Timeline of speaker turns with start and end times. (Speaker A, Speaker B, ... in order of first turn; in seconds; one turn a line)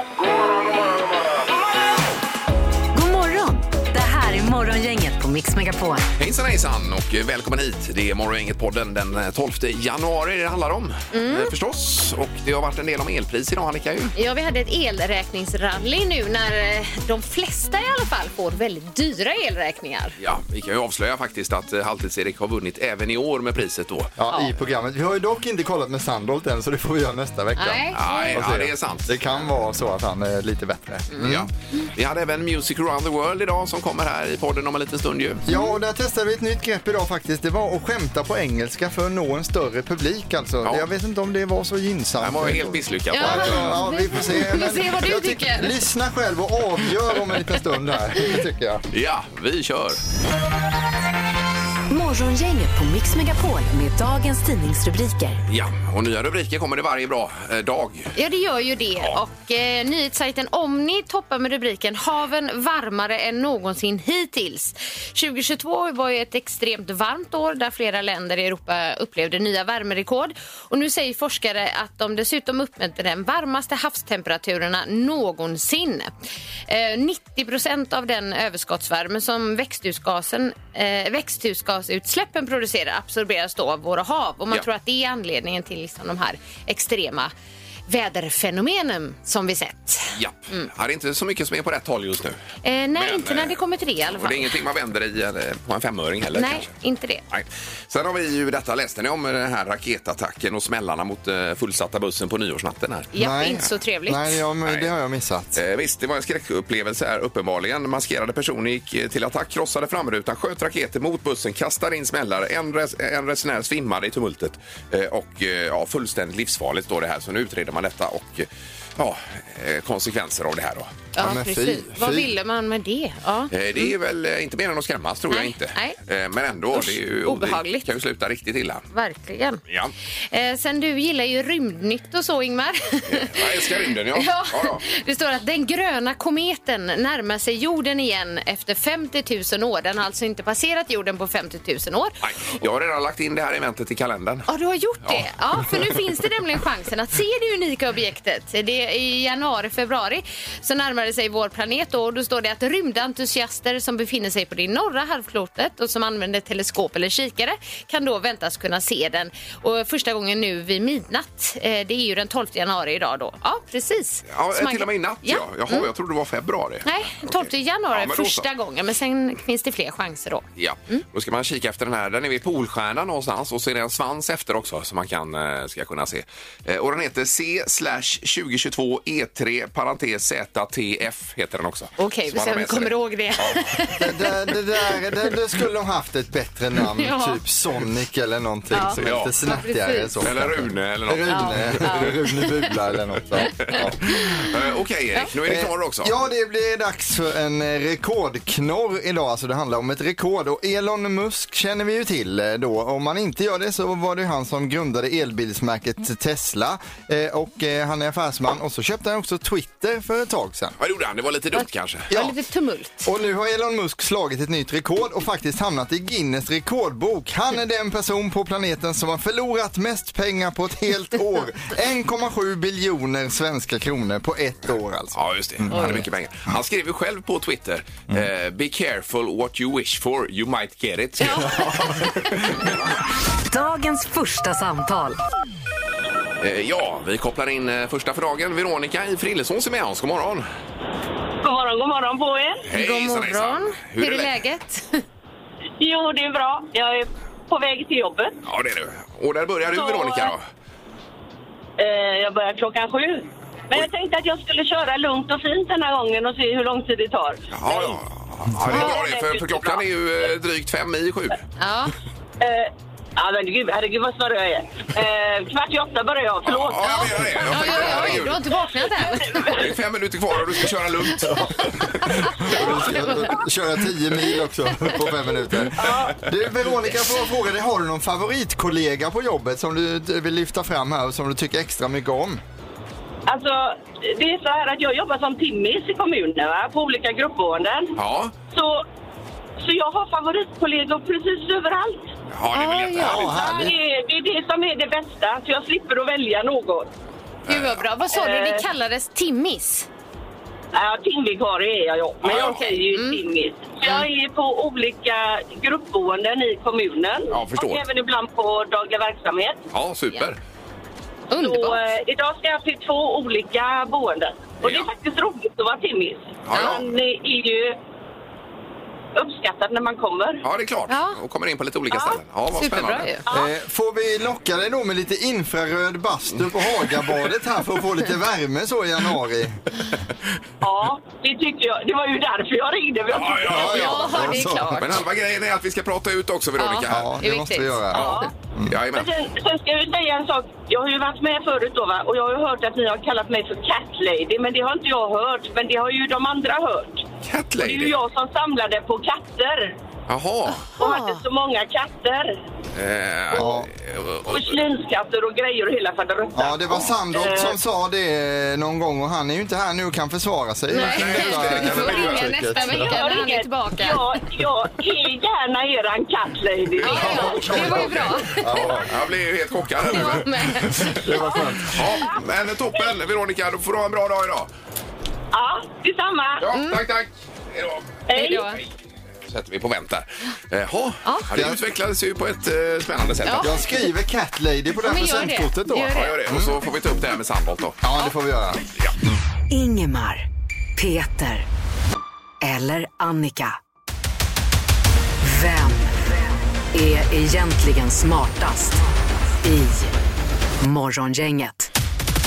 Speaker A: 2.9-6.1
Speaker B: 6.2-14.1
Speaker C: 11.1-11.5
Speaker C: 14.2-20.1
Speaker B: 20.2-24.1
Speaker D: 24.2-31.5
Speaker C: 27.6-28.4
Speaker B: 27.9-29.5
Speaker B: 31.2-35.5
Speaker D: 35.5-48.8
Speaker B: 42.2-43.8
Speaker C: 43.1-45.8
Speaker B: 48.9-50.0
Speaker A: 51.9-55.4
Speaker B: 55.5-58.1
Speaker C: 58.2-76.1
Speaker C: 76.7-87.3
Speaker C: 87.9-90.7
Speaker B: 90.2-92.4
Speaker C: 92.6-94.6
Speaker B: 93.0-93.6
Speaker B: 94.1-96.7
Speaker C: 96.4-97.2
Speaker B: 97.3-103.1
Speaker C: 103.1-104.3
Speaker D: 103.2-105.6
Speaker B: 105.5-120.9
Speaker C: 121.2-123.9
Speaker D: 121.2-122.3
Speaker B: 123.5-128.9
Speaker C: 125.3-126.0
Speaker C: 126.7-127.8
Speaker C: 128.9-129.6
Speaker C: 130.3-142.1
Speaker B: 133.1-134.8
Speaker B: 142.2-144.5
Speaker C: 144.5-165.8
Speaker B: 145.1-145.8
Speaker B: 164.3-168.5
Speaker C: 166.8-171.0
Speaker B: 170.6-183.6
Speaker C: 182.0-184.9
Speaker D: 184.0-194.3
Speaker C: 186.9-187.4
Speaker C: 188.7-190.1
Speaker B: 189.0-189.3
Speaker B: 190.2-192.2
Speaker C: 191.3-192.4
Speaker B: 193.4-196.1
Speaker C: 193.7-194.4
Speaker D: 195.4-210.8
Speaker B: 210.8-212.1
Speaker C: 211.6-213.1
Speaker D: 213.0-226.0
Speaker B: 225.2-232.7
Speaker C: 225.7-226.0
Speaker C: 231.2-232.1
Speaker A: 233.5-235.2
Speaker B: 236.4-240.5
Speaker E: 241.4-242.6
Speaker B: 242.7-244.4
Speaker C: 242.8-245.0
Speaker E: 245.8-248.4
Speaker B: 248.5-250.4
Speaker E: 249.7-250.3
Speaker E: 251.8-258.0
Speaker B: 257.5-261.4
Speaker E: 258.6-259.8
Speaker C: 261.6-261.9
Speaker E: 262.4-268.4
Speaker B: 266.4-268.4
Speaker C: 267.5-269.5
Speaker E: 269.1-269.7
Speaker B: 269.5-271.9
Speaker D: 271.2-282.4
Speaker C: 272.0-273.2
Speaker E: 275.8-276.2
Speaker E: 283.3-287.9
Speaker B: 288.0-288.3
Speaker E: 288.5-288.9
Speaker E: 289.6-292.1
Speaker B: 292.3-293.4
Speaker C: 292.5-293.7
Speaker D: 293.0-293.7
Speaker E: 293.3-296.9
Speaker B: 297.5-297.8
Speaker C: 297.5-299.9
Speaker E: 298.1-298.6
Speaker E: 300.7-309.6
Speaker B: 302.2-302.6
Speaker C: 302.3-303.2
Speaker B: 307.3-307.8
Speaker B: 309.7-310.4
Speaker C: 311.3-311.8
Speaker E: 311.4-317.8
Speaker B: 314.6-314.9
Speaker B: 316.5-316.9
Speaker E: 319.1-320.4
Speaker B: 320.4-323.1
Speaker C: 320.9-321.2
Speaker E: 321.9-322.2
Speaker C: 322.5-323.2
Speaker E: 323.3-323.5
Speaker D: 323.3-329.6
Speaker E: 330.6-334.3
Speaker B: 333.1-337.1
Speaker D: 333.5-335.0
Speaker C: 333.5-335.0
Speaker C: 336.6-338.2
Speaker D: 336.9-338.8
Speaker E: 337.9-338.3
Speaker B: 338.7-339.1
Speaker E: 338.9-347.1
Speaker B: 347.2-348.0
Speaker E: 347.6-349.8
Speaker B: 350.1-350.7
Speaker C: 350.8-351.2
Speaker E: 350.8-352.4
Speaker B: 352.8-354.5
Speaker D: 353.3-353.7
Speaker E: 354.3-357.6
Speaker D: 356.4-363.0
Speaker C: 360.7-364.2
Speaker B: 360.8-362.4
Speaker E: 362.6-367.8
Speaker B: 366.8-370.9
Speaker C: 366.8-368.9
Speaker D: 366.9-368.9
Speaker C: 369.8-371.4
Speaker D: 370.7-371.9
Speaker B: 371.7-374.5
Speaker E: 375.3-376.5
Speaker B: 376.4-378.0
Speaker C: 376.5-376.8
Speaker E: 378.1-378.5
Speaker C: 378.1-378.6
Speaker B: 379.3-383.6
Speaker D: 381.3-381.6
Speaker C: 383.3-383.6
Speaker D: 383.4-386.6
Speaker C: 384.8-386.2
Speaker B: 385.9-387.8
Speaker D: 387.8-388.6
Speaker A: 389.5-390.3
Speaker A: 390.8-391.5
Speaker A: 392.4-393.6
Speaker A: 395.2-395.9
Speaker A: 396.7-398.8
Speaker A: 399.4-399.9
Speaker A: 400.6-401.7